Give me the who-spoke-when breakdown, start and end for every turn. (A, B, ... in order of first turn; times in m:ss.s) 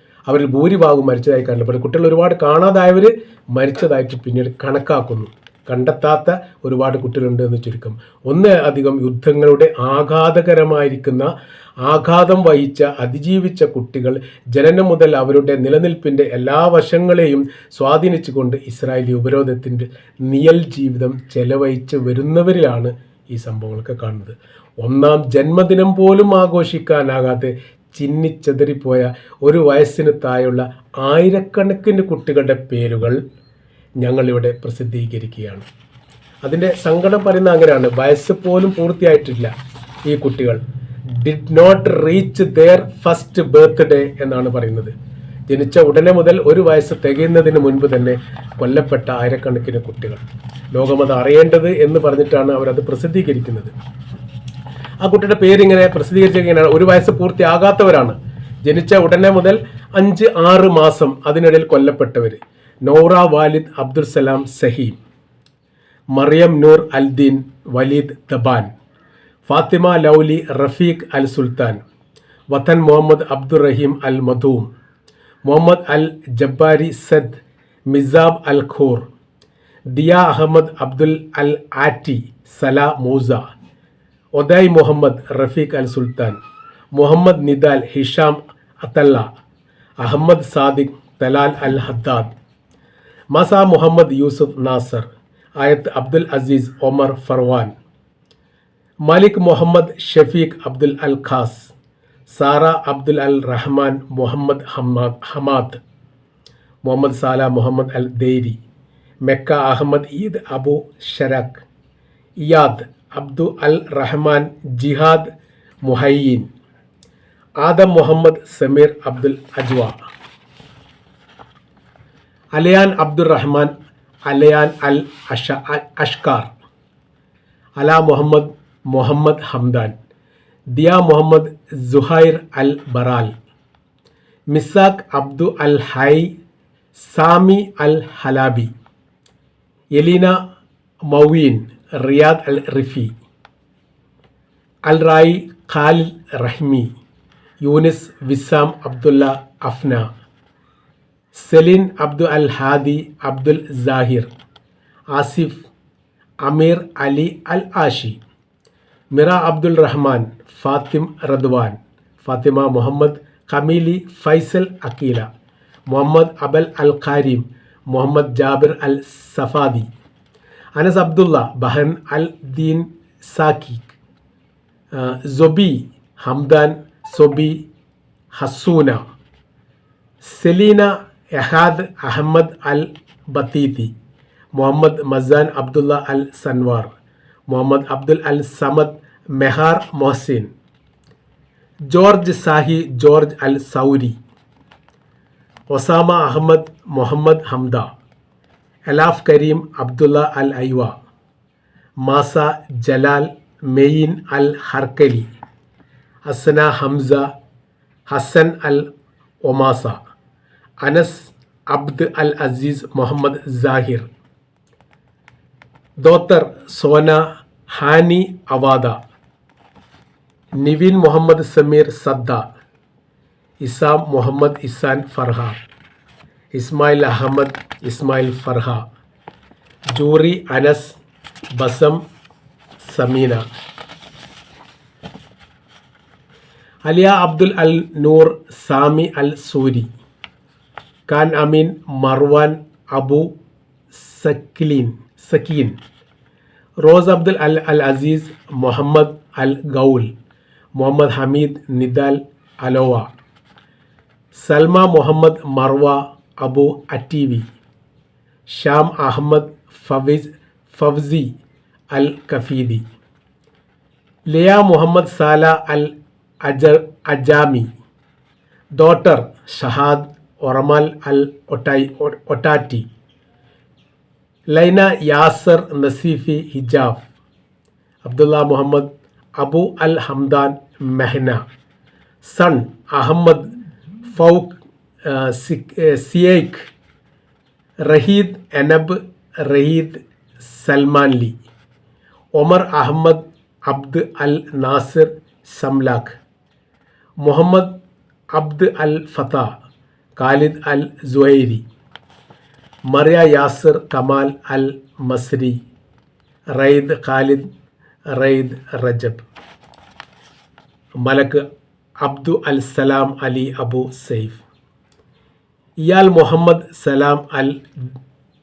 0:00.3-0:33.2 A
0:34.0-0:35.7 A
0:36.4-0:39.5 A
0:40.1-0:40.6 A
0:41.1-0:44.9 A
0:45.5-0:50.2 A
0:50.7-0:53.7 A
0:55.0-1:05.0 A
1:06.1-1:08.7 A
1:09.5-1:11.8 A
1:12.5-1:14.7 A
1:15.4-1:19.1 A
1:19.9-1:23.4 A
1:24.4-1:26.4 A
1:26.9-1:29.3 A
1:30.0-1:32.3 A
1:33.3-1:37.7 A
1:39.1-1:41.7 A
1:42.3-1:45.8 A
1:46.8-1:48.6 A
1:49.2-1:51.6 A
1:52.4-1:55.3 A
1:55.8-1:56.5 A
1:57.6-2:00.0 A
2:02.5-2:03.7 A
2:04.3-2:06.5 A
2:07.8-2:10.0 A
2:10.7-2:13.3 A
2:14.5-2:16.3 A
2:17.0-2:18.7 A
2:20.0-2:20.4 A
2:21.1-2:23.1 A
2:24.9-2:26.9 A
2:27.6-2:30.1 A
2:31.3-2:34.3 A
2:35.1-2:35.7 A
2:36.4-2:38.2 A
2:39.1-2:45.3 A
2:45.9-2:49.9 A
2:50.8-2:54.0 A
2:54.9-2:57.7 A
2:58.3-2:59.0 A
3:00.2-3:03.9 A
3:04.6-3:06.9 A
3:07.5-3:10.5 A
3:11.9-3:14.2 A
3:15.7-3:17.9 A
3:18.9-3:20.9 A
3:22.0-3:25.3 A
3:26.2-3:27.3 A
3:28.1-3:28.9 A
3:29.4-3:30.0 A
3:30.8-3:34.1 A
3:36.0-3:39.0 A
3:40.6-3:42.4 A
3:43.6-3:45.6 A
3:46.5-3:48.8 A
3:49.9-3:51.0 A
3:51.6-3:52.0 A
3:52.8-3:53.4 A
3:56.8-3:59.9 A
4:01.1-4:03.3 A
4:03.9-4:05.8 A
4:06.8-4:10.1 A
4:10.8-4:13.1 A
4:14.3-4:17.5 A
4:18.5-4:21.3 A
4:21.9-4:22.8 A
4:24.3-4:27.7 A
4:28.8-4:32.9 A
4:34.5-4:37.0 A
4:38.0-4:41.4 A
4:42.2-4:43.5 A
4:44.1-4:46.7 A
4:47.9-4:51.4 A
4:52.4-4:56.2 A
4:57.2-4:57.7 A
4:58.3-4:59.6 A
5:00.2-5:01.6 A
5:02.9-5:05.6 A
5:06.6-5:07.4 A
5:08.1-5:09.2 A
5:11.0-5:11.4 A
5:12.0-5:14.4 A
5:15.8-5:17.9 A